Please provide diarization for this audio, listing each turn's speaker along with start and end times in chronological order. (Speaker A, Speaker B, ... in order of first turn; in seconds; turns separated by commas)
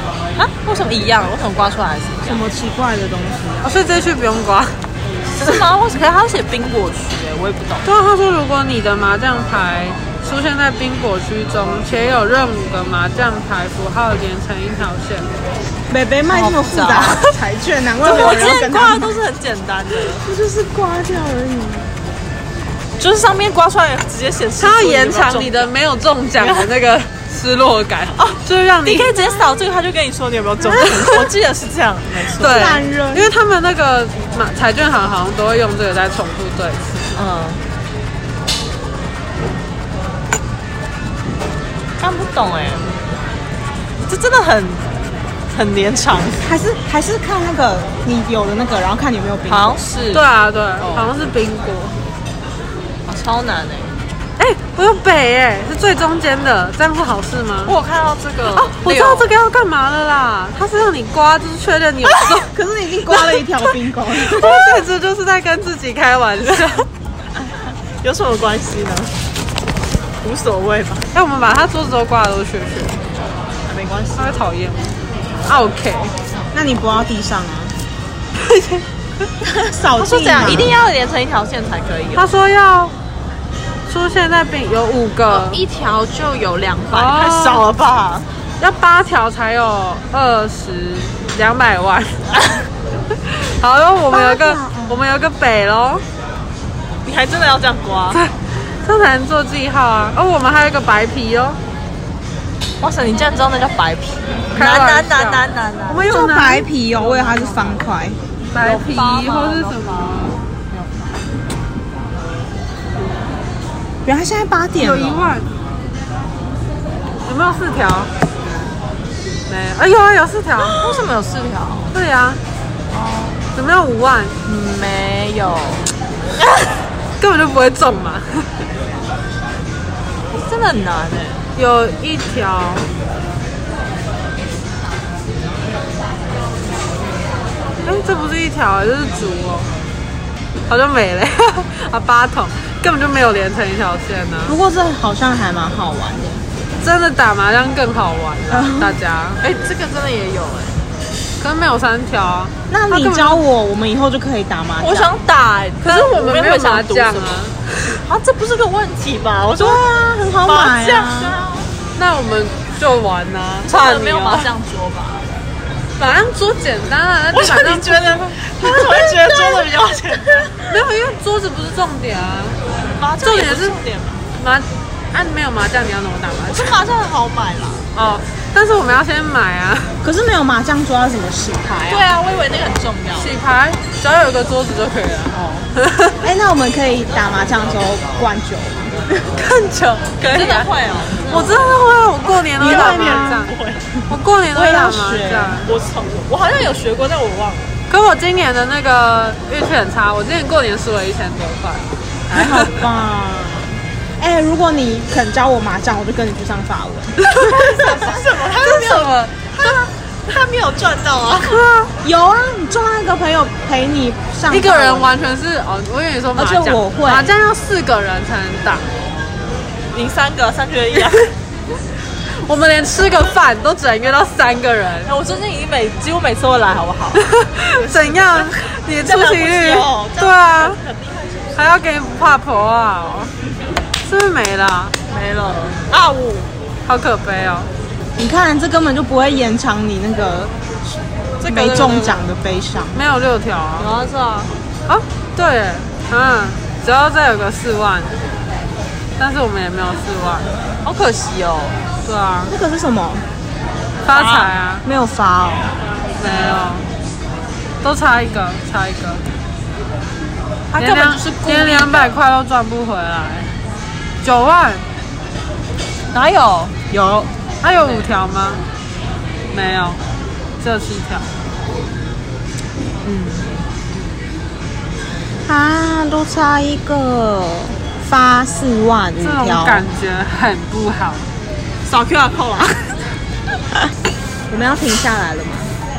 Speaker A: 0.4-2.4, Speaker B: 2.2-3.7, Speaker C: 3.6-4.8, Speaker A: 5.4-7.9, Speaker C: 7.8-15.3, Speaker B: 15.9-19.2, Speaker A: 16.3-17.3, Speaker A: 18.0-20.2, Speaker B: 20.2-21.9, Speaker A: 23.0-25.7, Speaker C: 24.6-29.1, Speaker A: 26.4-26.7, Speaker A: 28.2-32.8, Speaker C: 32.4-37.1, Speaker B: 32.4-33.3, Speaker A: 37.1-37.6, Speaker A: 42.0-42.9, Speaker A: 44.0-44.9, Speaker A: 45.5-46.5, Speaker B: 46.4-49.8, Speaker A: 49.5-50.2, Speaker C: 50.1-52.0, Speaker A: 50.8-51.1, Speaker A: 53.0-53.9, Speaker C: 54.4-57.7, Speaker A: 57.6-59.3, Speaker C: 58.7-62.5, Speaker B: 62.4-64.8, Speaker C: 64.2-66.8, Speaker A: 68.0-69.1, Speaker A: 70.2-71.1, Speaker C: 71.1-73.1, Speaker A: 73.7-74.4, Speaker C: 74.2-74.9, Speaker C: 75.4-76.1, Speaker B: 76.5-77.8, Speaker C: 78.3-78.8, Speaker A: 79.5-82.3, Speaker B: 79.7-80.8, Speaker C: 82.1-82.9, Speaker C: 83.9-85.6, Speaker A: 85.3-88.3, Speaker C: 86.9-87.6, Speaker C: 88.6-92.2, Speaker A: 92.3-92.6, Speaker C: 93.1-96.0, Speaker B: 94.1-95.0, Speaker A: 97.0-98.2, Speaker C: 98.1-101.6, Speaker A: 102.8-106.1, Speaker C: 104.5-107.7, Speaker B: 106.1-108.2, Speaker C: 108.5-110.4, Speaker A: 108.6-110.8, Speaker B: 114.0-115.3, Speaker C: 114.8-115.5, Speaker C: 117.2-118.1, Speaker C: 119.5-120.8, Speaker A: 120.7-121.9, Speaker C: 121.9-122.4, Speaker A: 122.9-123.4, Speaker C: 123.5-124.4, Speaker A: 124.4-125.9, Speaker C: 127.2-128.6, Speaker A: 130.3-131.4, Speaker C: 131.5-132.9, Speaker C: 137.8-139.7, Speaker C: 140.7-144.6, Speaker B: 144.4-146.4, Speaker C: 146.8-149.4, Speaker B: 148.5-149.0, Speaker A: 149.4-150.8, Speaker C: 151.4-153.4, Speaker B: 152.7-155.1, Speaker A: 154.8-157.4, Speaker C: 155.8-158.0, Speaker A: 157.9-159.8, Speaker B: 159.6-161.4, Speaker A: 160.4-161.7, Speaker C: 161.9-164.5, Speaker A: 163.6-165.2, Speaker C: 166.0-169.5, Speaker A: 167.3-170.8, Speaker C: 170.7-172.6, Speaker A: 172.8-174.2, Speaker C: 173.2-173.8, Speaker C: 174.4-176.8, Speaker A: 176.5-177.8, Speaker C: 177.9-179.9, Speaker B: 180.0-182.1, Speaker A: 181.9-183.3, Speaker C: 183.2-186.2, Speaker B: 185.3-185.7, Speaker B: 186.2-189.3, Speaker C: 189.3-193.5, Speaker A: 190.2-193.8, Speaker B: 192.6-193.5, Speaker C: 194.1-195.7, Speaker B: 194.5-195.7, Speaker A: 195.7-197.7, Speaker C: 197.9-202.8, Speaker B: 202.3-207.2, Speaker C: 207.2-209.7, Speaker A: 207.4-211.6, Speaker C: 211.4-211.9, Speaker B: 212.0-215.1, Speaker C: 214.5-218.9, Speaker B: 216.3-217.3, Speaker A: 219.9-221.2, Speaker C: 222.3-225.1, Speaker A: 225.1-227.2, Speaker C: 227.2-230.8, Speaker A: 227.8-232.0, Speaker C: 231.5-233.3, Speaker C: 234.0-234.9, Speaker A: 235.1-236.5, Speaker C: 236.8-237.7, Speaker B: 238.2-243.0, Speaker A: 241.4-242.3, Speaker C: 242.9-243.9, Speaker A: 243.8-244.5, Speaker C: 244.9-248.1, Speaker C: 249.2-250.5, Speaker A: 250.8-251.8, Speaker C: 252.0-252.5, Speaker B: 252.5-253.2, Speaker C: 254.0-254.8, Speaker A: 254.1-254.5, Speaker B: 254.8-255.8, Speaker C: 256.2-256.9, Speaker C: 257.8-259.2, Speaker A: 260.7-262.2, Speaker C: 260.8-263.5, Speaker C: 264.2-264.8, Speaker A: 266.1-268.1, Speaker C: 267.6-268.6, Speaker C: 269.5-270.0, Speaker C: 270.6-271.3, Speaker B: 273.0-273.4, Speaker B: 275.4-279.9, Speaker C: 279.2-281.3, Speaker A: 281.9-282.9, Speaker B: 284.5-285.7